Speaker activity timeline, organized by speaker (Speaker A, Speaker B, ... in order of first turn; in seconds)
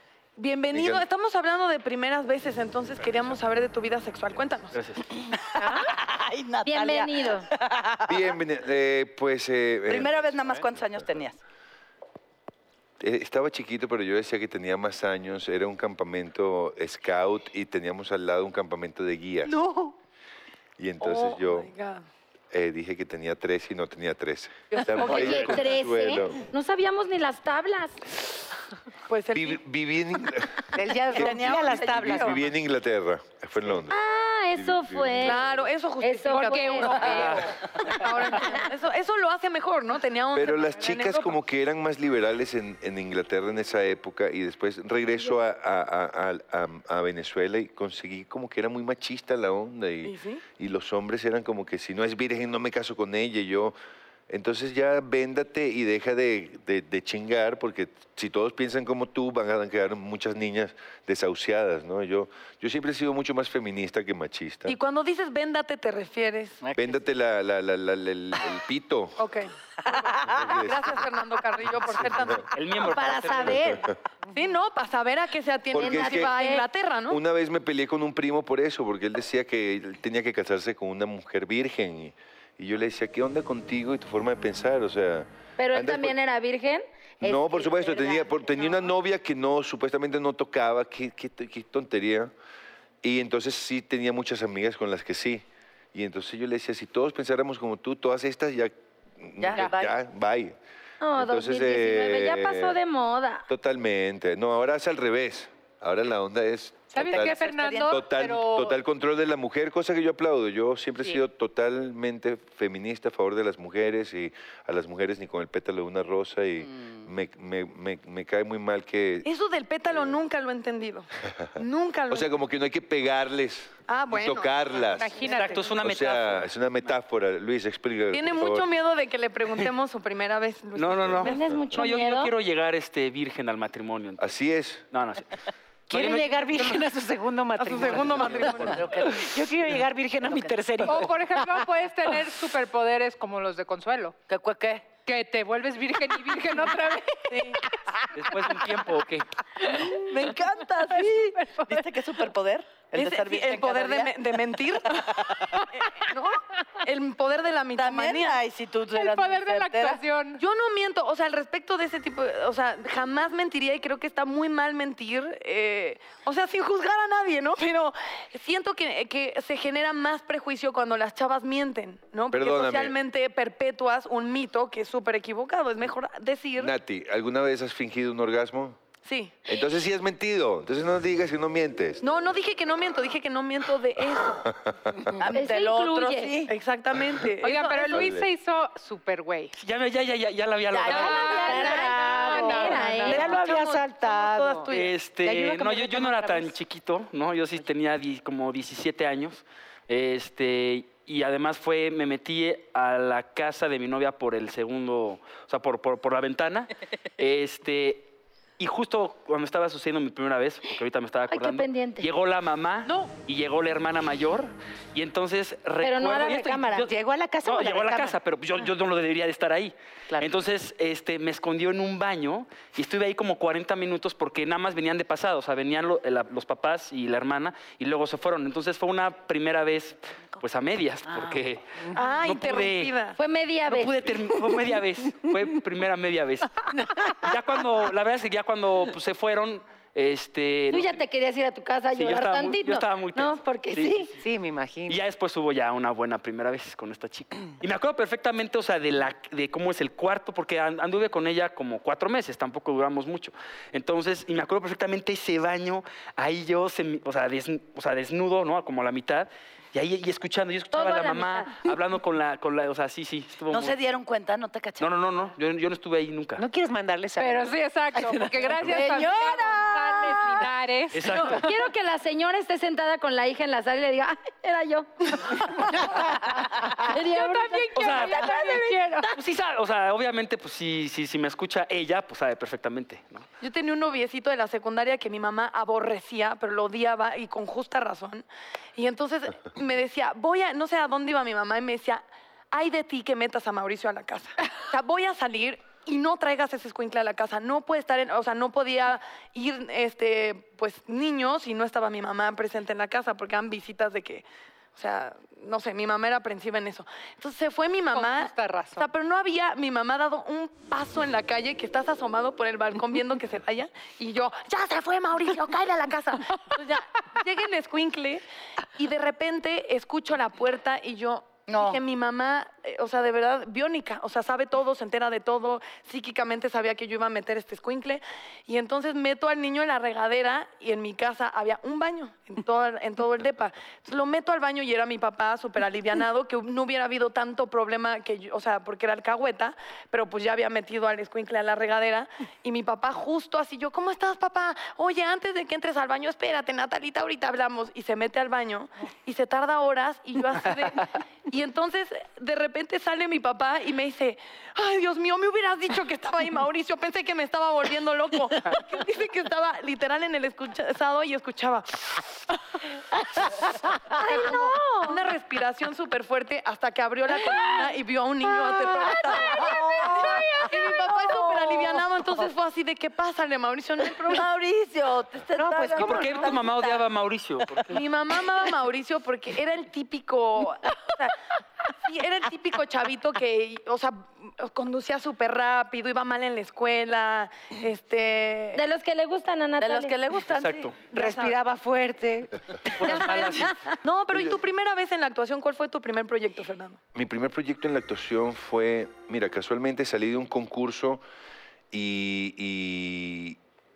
Speaker A: 0.4-4.8, 19.5-19.9, 21.0-22.0, 24.7-25.6, 29.1-29.6, 31.7-32.1, 35.2-41.4, 50.0-50.4, 64.7-66.6, 69.2-69.5, 70.4-73.8, 74.3-77.2, 119.2-122.3, 123.9-125.6, 128.1-131.3, 137.6-138.9, 147.3-147.6, 152.9-158.4, 160.4-176.7, 179.0-179.4, 182.0-184.5, 186.5-188.1, 191.0-196.5, 231.9-233.2, 283.4-318.2, 318.7-362.0, 364.0-374.3, 377.7-381.1, 381.8-388.6, 390.9-391.4, 392.9-396.8
Speaker B: 0.7-1.0, 8.1-11.1, 13.0-19.5, 20.8-21.7, 22.5-26.4, 29.3-34.0, 34.5-35.6, 40.3-53.8, 54.3-64.8, 66.8-69.2, 70.2-71.0, 71.9-72.4, 73.4-73.9, 75.7-76.4, 77.1-86.1, 87.2-92.3, 93.0-100.5, 101.1-102.8, 103.5-119.3, 119.9-120.2, 122.1-125.2, 125.8-128.7, 131.0-131.3, 134.2-134.9, 172.3-172.9, 176.6-178.8, 179.4-182.0, 184.4-185.1, 187.9-188.3, 396.9-401.0, 401.7-403.4
Speaker C: 4.7-5.0, 72.5-73.8, 125.2-126.9, 130.7-134.3, 134.9-135.3, 135.9-136.8, 137.9-138.8, 148.1-149.3, 189.6-191.4, 194.7-216.9, 217.4-232.9, 233.7-241.0, 241.9-244.2, 244.9-263.8, 264.8-266.4, 270.9-271.4, 277.7-278.3, 279.1-283.3, 375.8-377.8, 390.4-390.8, 392.8-393.6
Speaker D: 5.2-8.3, 9.9-11.4, 31.1-32.4, 66.6-67.0, 69.9-70.6, 99.4-99.9, 107.0-108.0, 116.6-117.0, 138.6-139.5, 140.2-141.0, 144.3-144.9, 149.6-154.1, 155.0-155.6, 157.8-160.0, 185.2-186.5, 190.7-192.6, 231.1-231.4, 263.5-264.9, 268.6-270.5, 321.5-321.8, 369.1-371.8, 374.1-376.8, 389.6-390.8
Speaker E: 5.6-5.9, 30.7-32.4, 135.9-141.2, 190.9-194.7, 195.2-196.0, 212.9-213.1, 216.7-218.2, 244.2-245.0, 266.4-269.1, 375.3-376.4, 390.9-393.1
Speaker F: 6.6-7.5, 25.0-28.0, 33.9-35.4, 36.0-37.3, 75.7-76.7, 85.6-88.8, 101.0-103.5, 131.2-132.3, 185.2-186.3, 191.3-193.3, 211.3-212.1, 215.8-216.9, 233.2-233.9, 240.7-244.1, 260.7-261.6, 271.1-279.1, 364.0-364.9, 368.4-369.5, 388.5-389.9
Speaker G: 36.3-37.5, 106.9-108.8, 124.9-125.7, 140.9-144.2, 145.1-147.5, 150.9-151.8, 158.9-160.4, 187.4-189.5, 190.9-193.4, 267.2-271.6, 276.9-279.1, 307.9-308.9